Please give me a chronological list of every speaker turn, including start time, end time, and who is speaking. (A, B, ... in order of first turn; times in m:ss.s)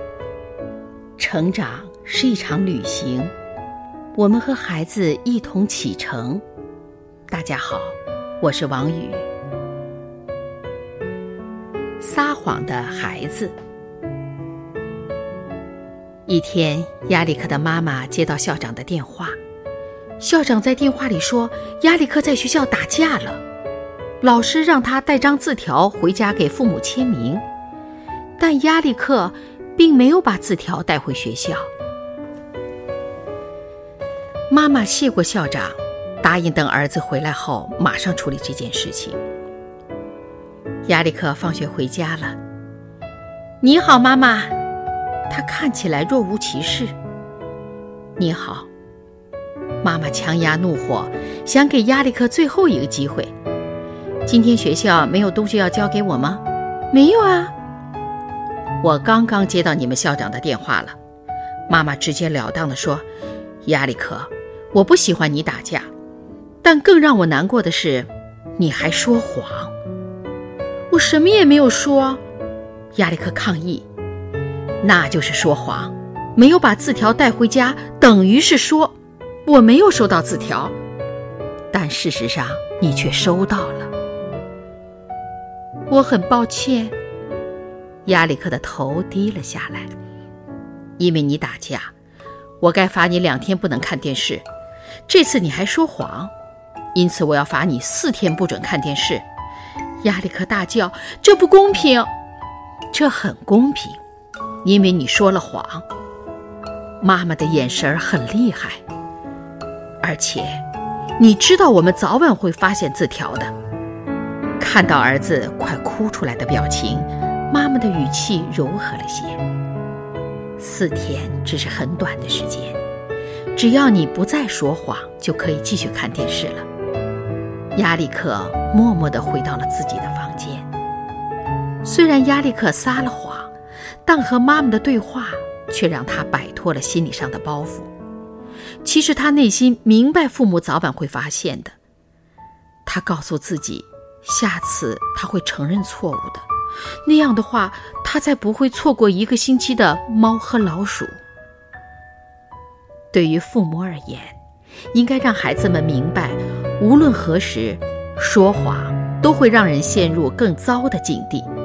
0:01.2-0:03.3 A
0:04.1-0:06.4 A
0:07.3-0:09.2 A
0:12.0-0:13.5 A
0:16.3-0:19.4 A
0:20.2-0:23.4 A
0:24.2-0:27.4 A
0:28.4-0:31.7 A
0:34.5-0:39.2 A
0:40.8-0:42.4 A
0:43.6-0:44.5 A
0:45.3-0:46.9 A
0:48.2-0:48.7 A
0:49.8-0:53.3 A
0:54.2-0:57.5 A
0:58.8-1:01.0 A
1:01.7-1:03.0 A
1:03.6-1:05.9 A
1:06.6-1:09.7 A
1:10.9-1:12.2 A
1:12.9-1:13.8 A
1:14.8-1:20.7 A
1:21.7-1:23.9 A
1:25.9-1:26.9 A
1:28.0-1:29.9 A
1:31.0-1:31.9 A
1:32.6-1:34.4 A
1:35.1-1:36.3 A
1:36.9-1:39.2 A
1:40.0-1:42.1 A
1:42.9-1:44.0 A
1:44.6-1:45.8 A
1:47.0-1:48.8 A
1:50.0-1:50.6 A
1:51.2-1:53.5 A
1:54.6-1:59.4 A
2:00.6-2:02.8 A
2:03.5-2:06.7 A
2:07.7-2:10.7 A
2:11.8-2:13.5 A
2:14.0-2:17.9 A
2:18.8-2:21.8 A
2:22.8-2:26.5 A
2:27.0-2:31.2 A
2:33.1-2:34.4 A
2:34.9-2:41.5 A